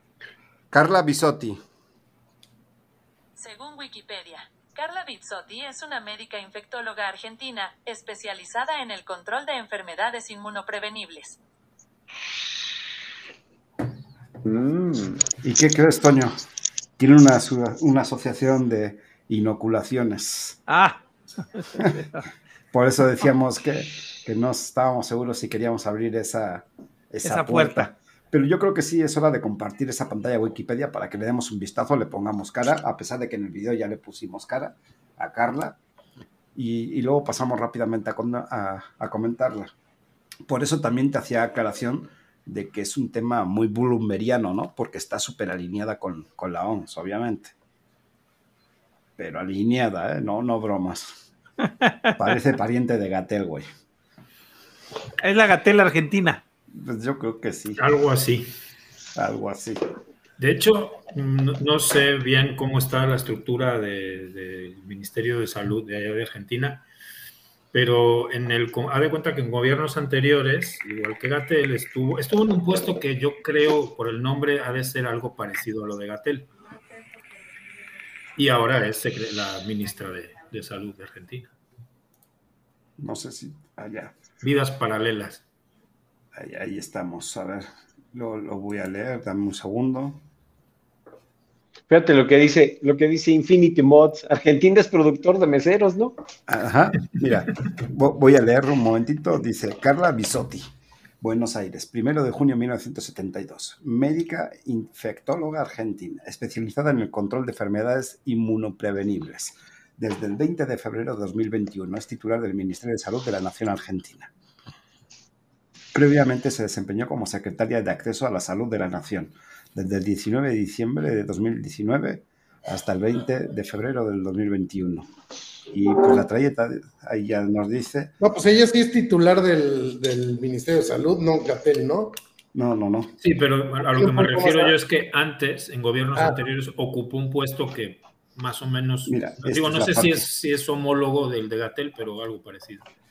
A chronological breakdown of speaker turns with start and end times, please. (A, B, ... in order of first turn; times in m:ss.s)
0:00.7-0:01.6 A
0:03.4-0:11.4 B
0:14.4-0:15.2 C
0:15.4-0:16.4 A
0:17.0-0:20.6 A
0:20.7-0:21.0 D
0:21.5-0:22.2 D
0:22.7-0:35.8 A
0:27.2-0:27.9 D
0:36.5-0:39.7 A
0:40.4-0:47.5 A
0:49.2-0:51.1 A
0:51.6-0:52.2 D
0:52.2-0:53.7 A
0:55.2-0:56.4 D
0:56.7-0:57.8 A
0:57.8-0:58.5 E
0:59.2-0:59.8 A
1:00.4-1:06.8 E
1:07.7-1:16.5 E
1:18.4-1:21.5 E
1:23.0-1:24.1 A
1:24.4-1:25.4 E
1:26.3-1:30.2 A
1:31.9-1:36.1 C
1:36.5-1:40.7 A
1:41.2-1:54.3 A
1:55.9-2:05.1 A
2:05.7-2:08.1 A
2:08.2-2:12.1 F
2:12.5-2:13.1 A
2:13.2-2:22.8 E
2:13.8-2:14.8 F
2:19.1-2:20.2 A